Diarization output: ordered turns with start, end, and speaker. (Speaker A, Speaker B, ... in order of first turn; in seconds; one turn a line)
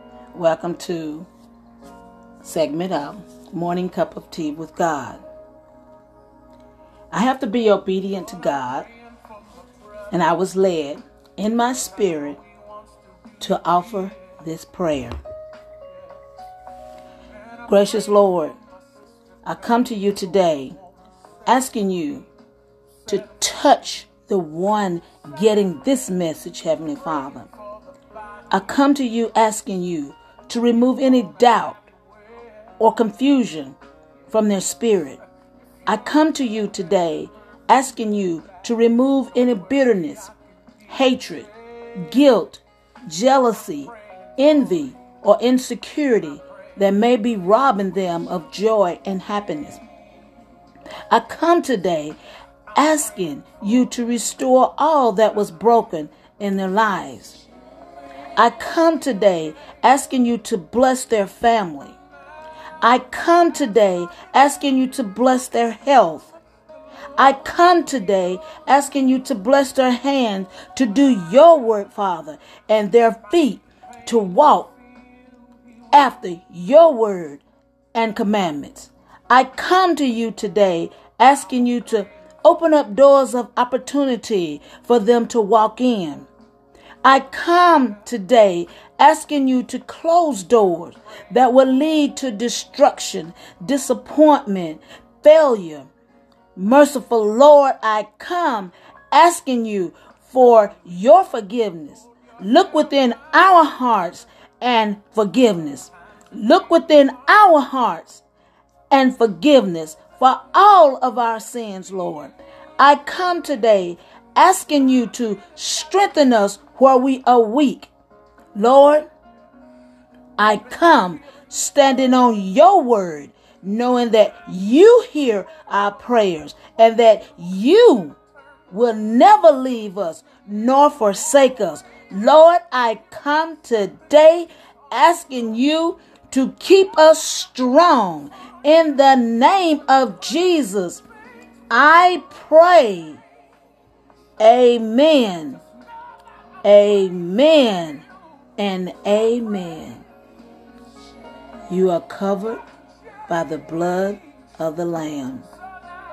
Speaker A: 0.3-1.3
Speaker A: 2.4-5.2
Speaker A: 7.1-8.9
Speaker A: 10.1-12.4
Speaker A: 13.4-15.2
Speaker A: 17.7-18.6
Speaker A: 19.4-20.8
Speaker A: 21.4-22.3
Speaker A: 23.1-27.5
Speaker A: 28.5-31.9
Speaker A: 32.8-33.8
Speaker A: 34.3-35.2
Speaker A: 35.9-40.3
Speaker A: 40.9-49.8
Speaker A: 51.1-52.2
Speaker A: 52.8-57.4
Speaker A: 58.4-62.0
Speaker A: 62.8-66.3
Speaker A: 67.2-74.7
Speaker A: 75.9-86.3
Speaker A: 87.0-95.9
Speaker A: 96.5-108.2
Speaker A: 108.9-117.9
Speaker A: 118.5-119.1
Speaker A: 120.4-128.2
Speaker A: 128.7-141.0
Speaker A: 141.7-143.2
Speaker A: 144.4-145.6
Speaker A: 146.6-148.0
Speaker A: 148.6-150.1
Speaker A: 151.7-152.6
Speaker A: 153.3-155.5